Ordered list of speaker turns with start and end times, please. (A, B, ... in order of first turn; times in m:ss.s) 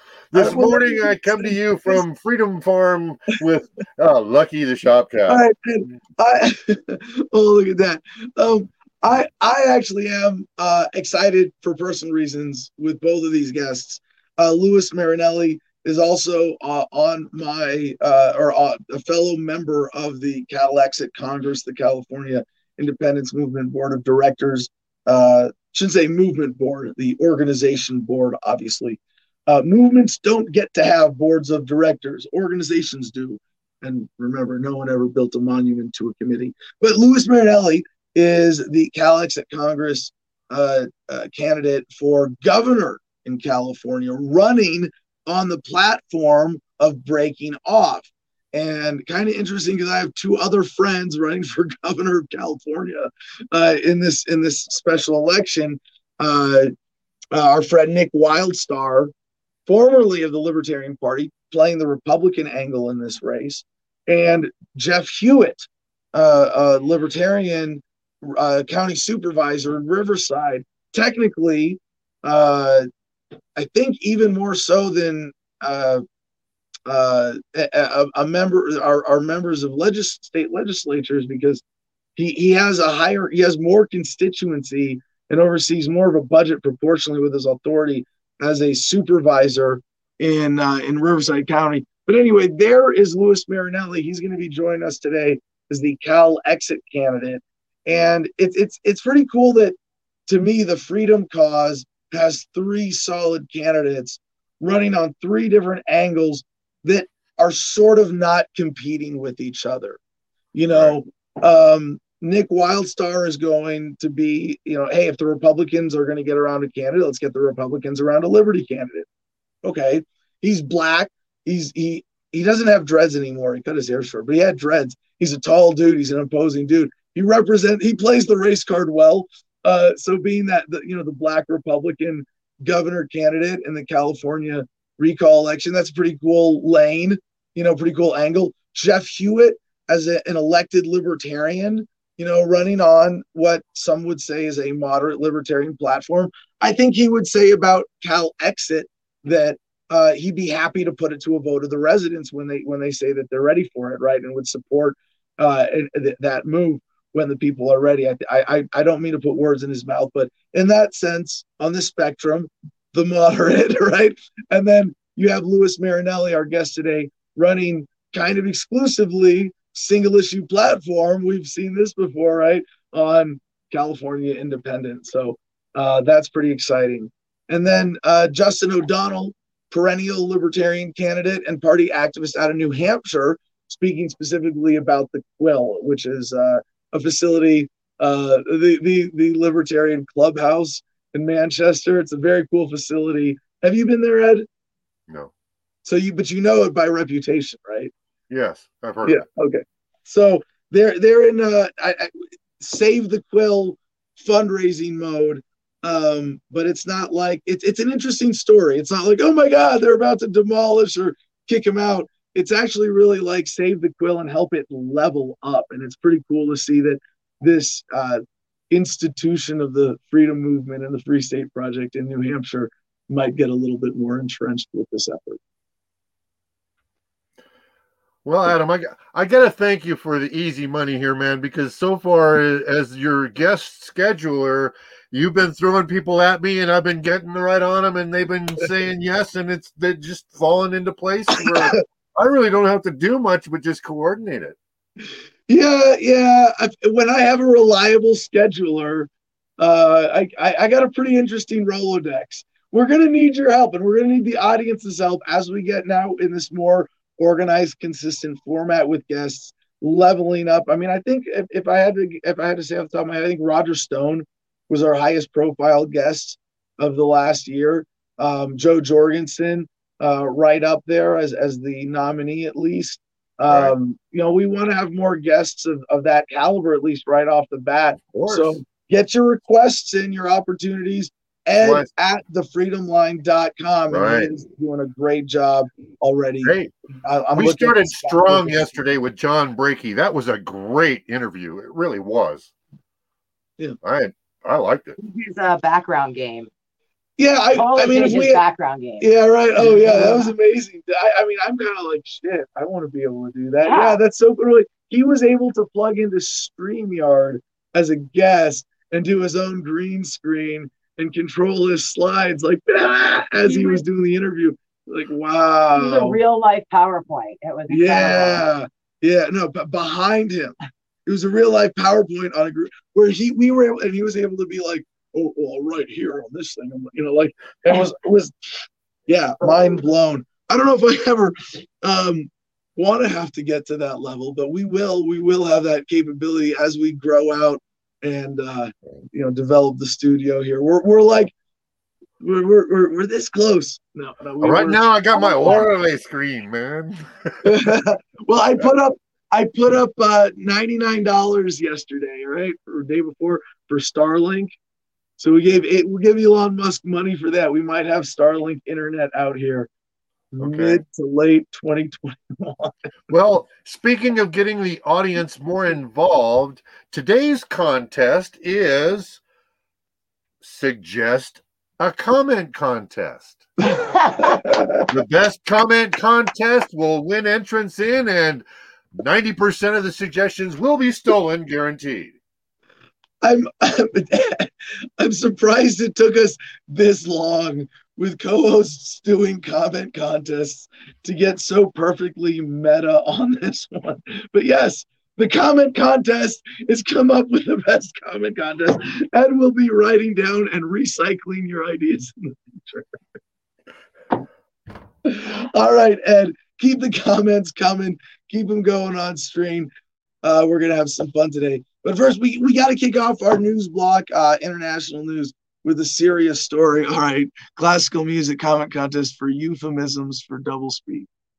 0:00.3-0:05.4 A
0:00.3-0:02.0 B
0:05.3-0:56.7 B
0:57.3-0:59.1 B
0:59.7-1:12.9 B
1:13.6-1:16.0 B
1:16.9-1:21.6 B
1:22.2-1:39.8 B
1:40.3-1:50.0 B
1:50.5-1:59.1 B
1:50.7-1:51.0 A
1:59.6-3:14.4 B
3:15.8-3:17.9 B
3:18.3-3:19.2 A
3:19.0-3:45.4 B
3:48.2-4:04.6 A
4:05.5-4:48.8 B
4:33.5-4:33.7 A
4:38.1-4:38.6 A
4:41.6-4:41.9 A
4:43.9-4:44.3 A
4:46.4-4:46.7 A
4:47.4-4:52.5 A
4:53.8-4:55.0 A
4:55.0-4:56.5 C
4:57.2-4:58.4 B
4:57.6-4:59.1 C
4:59.0-5:16.2 B
4:59.6-5:00.3 C
5:03.7-5:04.0 C
5:13.4-5:13.8 C
5:15.7-5:18.4 C
5:17.7-5:41.3 B
5:42.2-5:45.7 B
5:44.4-5:47.5 A
5:47.4-5:54.5 B
5:55.2-5:59.7 B
6:00.3-6:02.8 B
6:00.4-6:00.8 A
6:03.1-6:09.2 A
6:10.4-6:13.5 A
6:14.2-6:14.8 B
6:14.9-6:22.1 A
6:23.2-6:43.0 B
6:45.0-6:49.7 B
6:50.2-7:01.1 B